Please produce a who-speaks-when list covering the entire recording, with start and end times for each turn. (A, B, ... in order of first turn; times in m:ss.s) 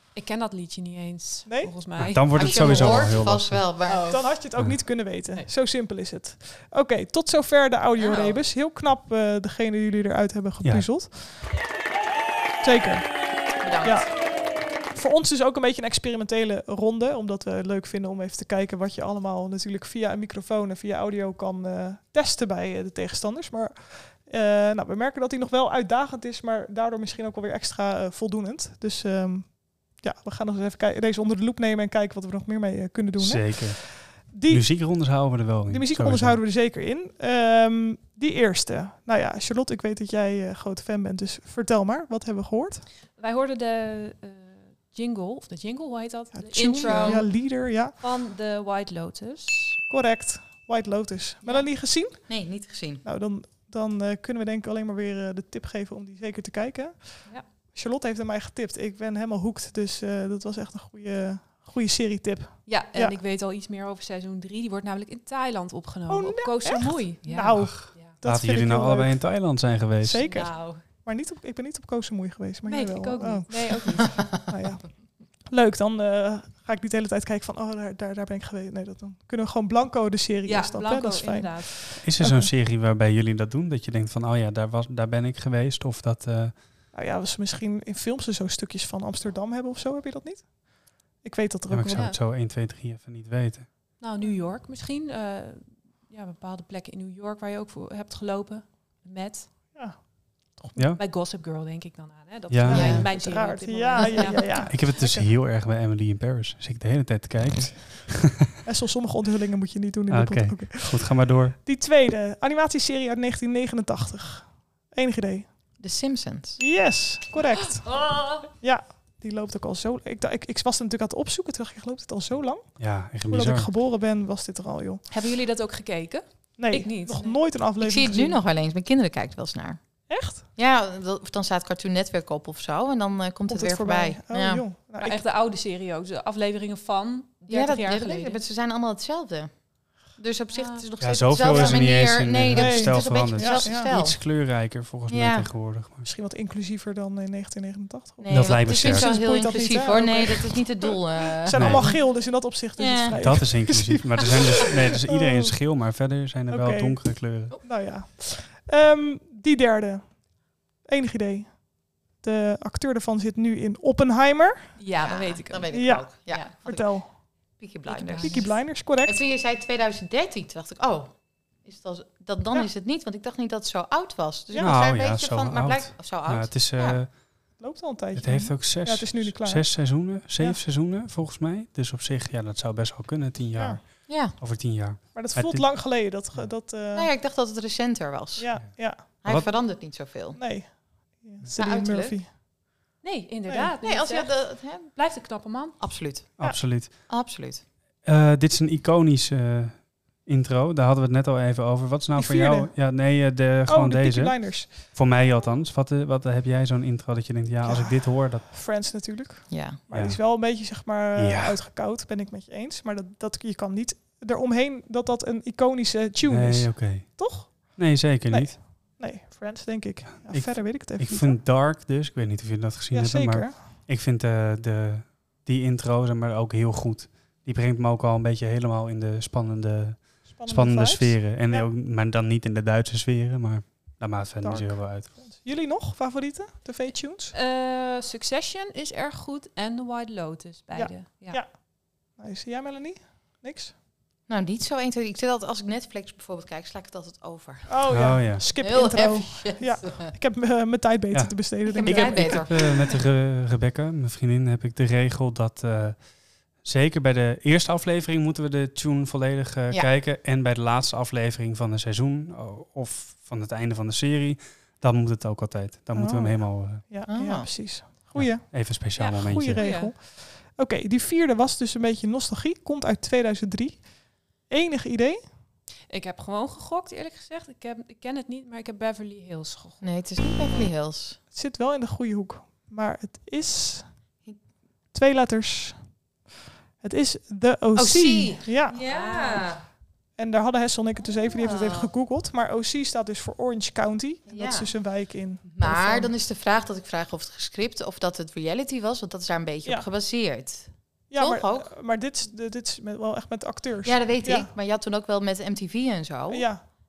0:00.2-0:03.2 A
0:01.5-0:01.7 B
0:02.0-0:03.6 C
0:02.3-0:04.1 D
0:03.8-0:04.3 A
0:04.1-0:11.4 B
0:08.0-0:08.4 D
0:12.6-0:14.2 B
0:13.6-0:14.1 D
0:14.7-0:34.7 B
0:33.2-0:36.4 C
0:35.7-0:42.8 B
0:43.2-0:49.8 A
0:46.3-0:48.0 B
0:46.8-0:47.2 D
0:49.9-0:52.4 B
0:52.3-0:53.0 D
0:53.0-1:03.2 B
1:02.7-1:08.2 A
1:06.1-1:09.2 B
1:07.6-1:10.2 C
1:10.0-1:14.9 B
1:10.2-1:10.8 A
1:12.7-1:14.4 A
1:15.5-1:22.5 B
1:20.4-1:22.0 A
1:22.0-1:26.5 C
1:26.9-1:30.6 B
1:31.2-1:32.0 B
1:31.7-1:33.7 C
1:31.9-1:32.2 A
1:34.0-1:39.5 A
1:40.5-1:40.8 B
1:41.0-1:44.9 A
1:42.5-1:43.1 C
1:42.7-1:43.1 D
1:42.7-1:45.3 B
1:44.7-1:48.4 C
1:48.6-1:55.5 B
1:50.1-1:51.6 C
1:55.8-1:56.6 D
1:56.6-1:58.1 B
1:57.6-1:58.5 A
1:58.6-2:05.0 B
2:02.8-2:03.7 C
2:05.1-2:07.4 A
2:06.6-2:08.4 B
2:07.8-2:09.8 D
2:10.1-2:10.4 B
2:10.6-2:14.6 D
2:13.5-2:15.2 B
2:15.0-2:18.4 A
2:17.5-2:19.5 D
2:20.2-2:24.2 D
2:20.5-2:20.9 A
2:21.0-2:26.1 C
2:22.5-2:23.9 B
2:25.1-2:25.5 D
2:26.0-2:35.6 B
2:28.2-2:32.0 D
2:28.3-2:29.1 C
2:31.5-2:31.9 C
2:32.8-2:33.5 D
2:33.2-2:37.6 C
2:36.5-2:44.8 B
2:44.8-2:46.5 A
2:45.0-2:47.0 D
2:45.7-2:47.1 B
2:47.6-2:57.0 D
2:47.9-2:48.5 A
2:48.2-2:49.2 B
2:54.6-2:57.1 C
2:57.6-3:00.6 B
2:58.2-3:06.5 C
3:03.5-3:03.8 B
3:04.1-3:04.4 D
3:05.1-3:07.1 B
3:06.9-3:10.5 D
3:08.4-3:09.0 B
3:09.2-3:09.5 C
3:10.4-3:12.3 B
3:11.6-3:12.2 D
3:13.0-3:15.8 A
3:13.5-3:13.7 B
3:13.8-3:15.3 D
3:15.8-3:17.6 D
3:16.4-3:16.9 C
3:18.0-3:28.4 C
3:22.2-3:22.8 B
3:23.7-3:24.7 B
3:27.6-3:41.4 B
3:29.5-3:29.8 D
3:29.9-3:30.2 C
3:31.2-3:31.6 C
3:36.2-3:38.6 C
3:40.2-3:55.1 C
3:42.9-3:43.6 B
3:50.4-3:51.7 B
3:54.4-3:57.3 B
3:57.3-4:01.4 A
4:00.7-4:01.6 B
4:02.2-4:03.7 B
4:04.3-4:10.1 D
4:07.7-4:12.5 B
4:07.9-4:08.4 C
4:11.1-4:16.0 C
4:11.7-4:13.0 D
4:16.6-4:26.8 C
4:25.9-4:33.9 B
4:27.1-4:27.7 D
4:28.2-4:29.6 C
4:29.0-4:29.9 A
4:34.4-4:35.2 B
4:35.9-4:39.8 A
4:39.8-4:41.2 D
4:41.3-4:43.9 B
4:44.9-4:45.8 B
4:46.8-4:48.8 B
4:47.8-4:49.6 D
4:48.8-4:49.5 A
4:50.2-4:56.1 B
4:51.4-4:51.9 D
4:54.3-4:54.7 D
4:55.4-5:01.7 D
5:01.1-5:04.5 B
5:03.8-5:06.5 D
5:06.3-5:06.6 B